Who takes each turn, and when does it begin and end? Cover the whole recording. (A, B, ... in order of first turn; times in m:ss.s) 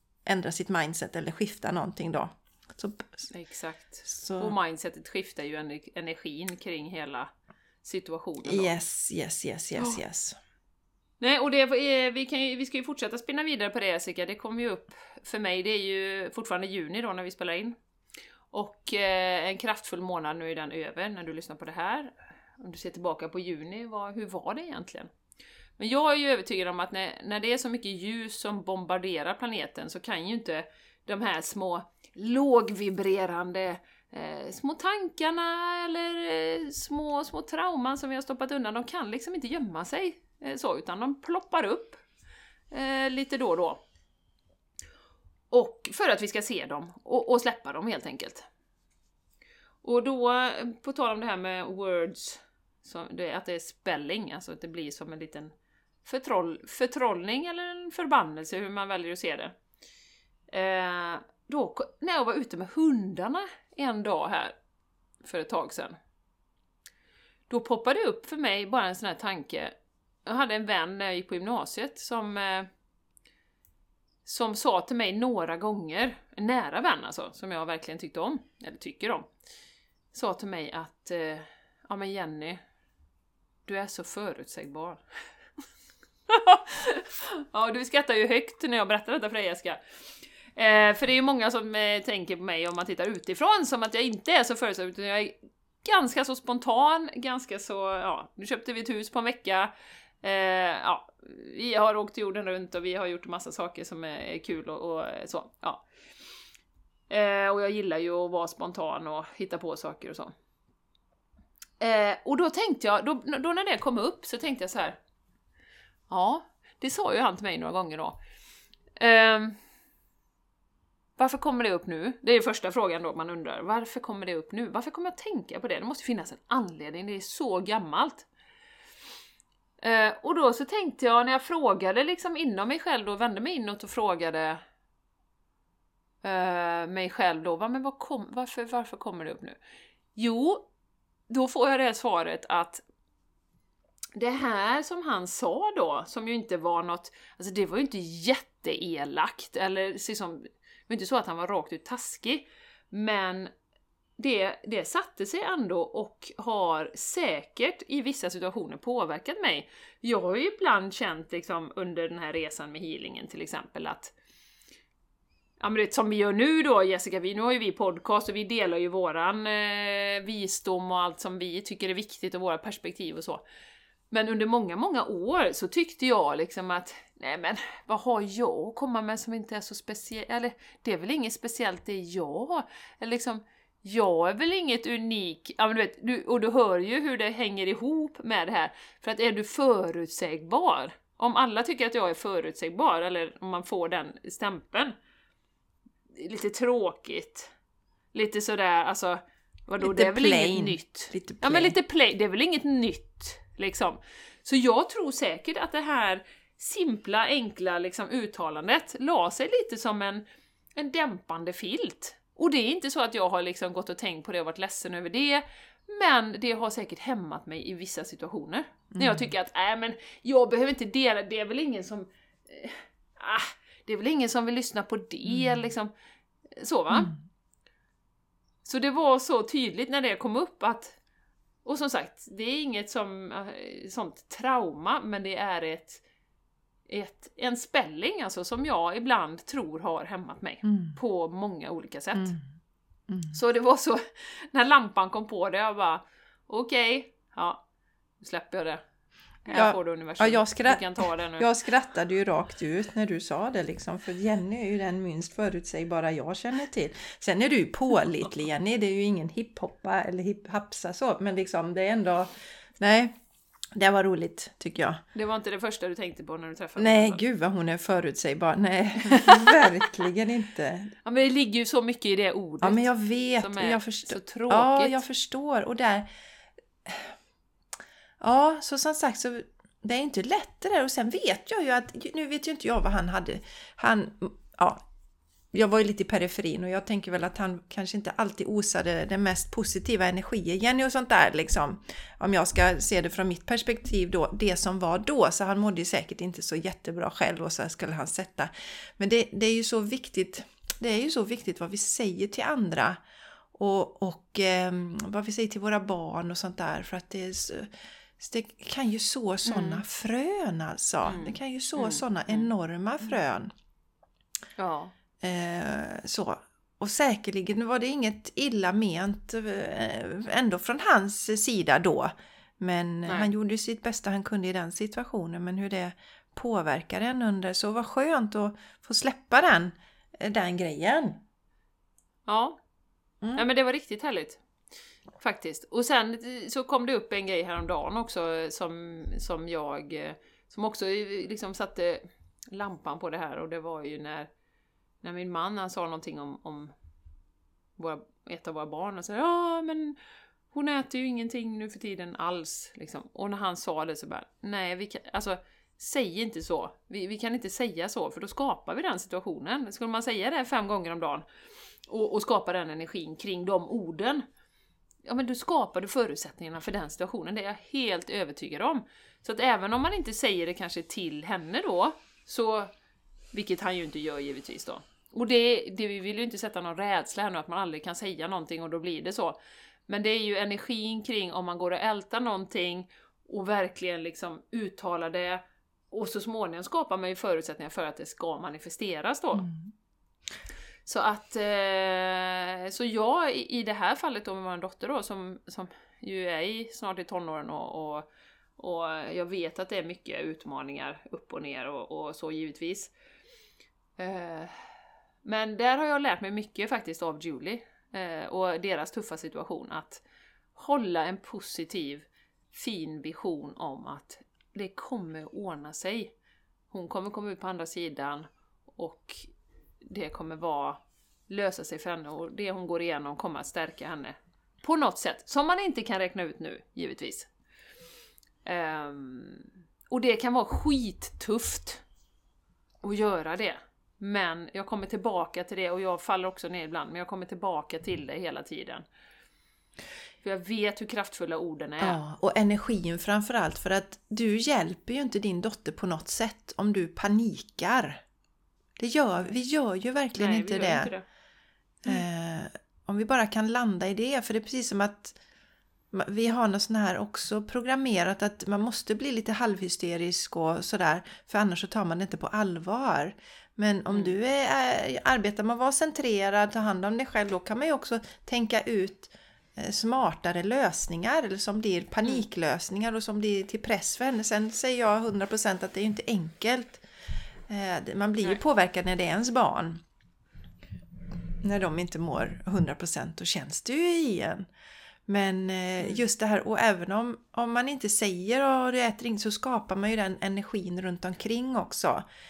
0:00.3-0:03.3 A
0:03.3-0:07.3 B
0:04.1-0:04.6 A
0:07.8-0:08.7 B
0:08.4-0:10.4 A
0:11.2-0:17.8 B
0:18.5-0:25.1 B
0:25.8-0:42.0 B
0:42.7-0:43.8 B
0:45.5-0:48.5 B
0:49.8-0:55.5 B
0:56.0-0:59.6 B
1:00.5-1:04.6 B
1:05.2-1:06.0 B
1:07.5-1:09.7 B
1:10.3-1:12.7 B
1:14.2-1:19.3 B
1:20.1-1:22.6 B
1:23.7-1:25.0 B
1:26.3-1:29.8 B
1:30.6-1:39.7 B
1:40.2-1:45.8 B
1:47.1-1:50.3 B
1:51.8-1:55.0 B
1:56.1-1:58.2 B
1:59.0-1:59.6 B
2:01.2-2:08.3 B
2:09.8-2:14.6 B
2:16.2-2:19.6 B
2:20.2-2:20.7 B
2:21.3-2:22.8 B
2:24.2-2:33.5 B
2:34.2-2:44.1 B
2:45.6-2:53.4 B
2:54.1-3:14.9 B
3:16.1-3:17.5 B
3:18.1-3:30.2 B
3:19.8-3:21.8 A
3:30.8-3:45.9 B
3:38.9-3:39.3 A
3:45.3-3:45.6 A
3:46.6-3:47.1 B
3:46.9-3:47.2 A
3:48.6-3:51.0 B
3:51.6-3:56.0 B
3:56.9-4:02.4 B
4:00.6-4:01.0 A
4:02.2-4:02.4 A
4:03.1-4:03.4 A
4:03.3-4:07.6 B
4:08.2-4:08.8 B
4:09.5-4:11.5 B
4:09.5-4:23.1 A
4:23.8-4:25.0 A
4:25.1-4:27.2 B
4:26.8-4:30.9 A
4:29.0-4:29.9 B
4:31.0-4:35.0 B
4:32.6-4:36.1 A
4:36.8-4:37.1 A
4:38.2-4:44.8 A
4:45.5-5:03.0 A
5:03.5-5:13.5 A
5:09.5-5:09.8 B
5:11.0-5:12.5 B
5:14.6-5:14.9 B
5:15.2-5:31.2 A
5:32.3-5:32.6 B
5:33.4-5:34.4 B
5:35.2-5:44.3 B
5:45.0-5:46.7 B
5:47.8-5:50.0 B
5:50.5-6:01.3 B
6:01.9-6:04.2 B
6:05.1-6:12.7 B
6:13.3-6:19.4 B
6:19.9-6:29.5 B
6:29.4-6:29.7 A
6:30.9-6:38.1 B
6:38.6-6:42.9 B
6:44.0-6:44.6 B
6:45.2-6:50.0 B
6:50.6-6:56.1 B
6:56.7-6:59.3 B
6:59.8-7:07.3 B
7:08.4-7:11.8 B
7:12.8-7:18.8 B
7:20.2-7:22.0 B
7:21.8-7:28.0 A
7:28.8-7:30.9 A
7:30.2-7:31.0 B
7:31.8-7:35.2 A
7:35.9-7:56.8 A
7:43.9-7:44.2 B
7:57.5-7:59.8 A
8:01.4-8:04.5 A
8:05.1-8:12.0 A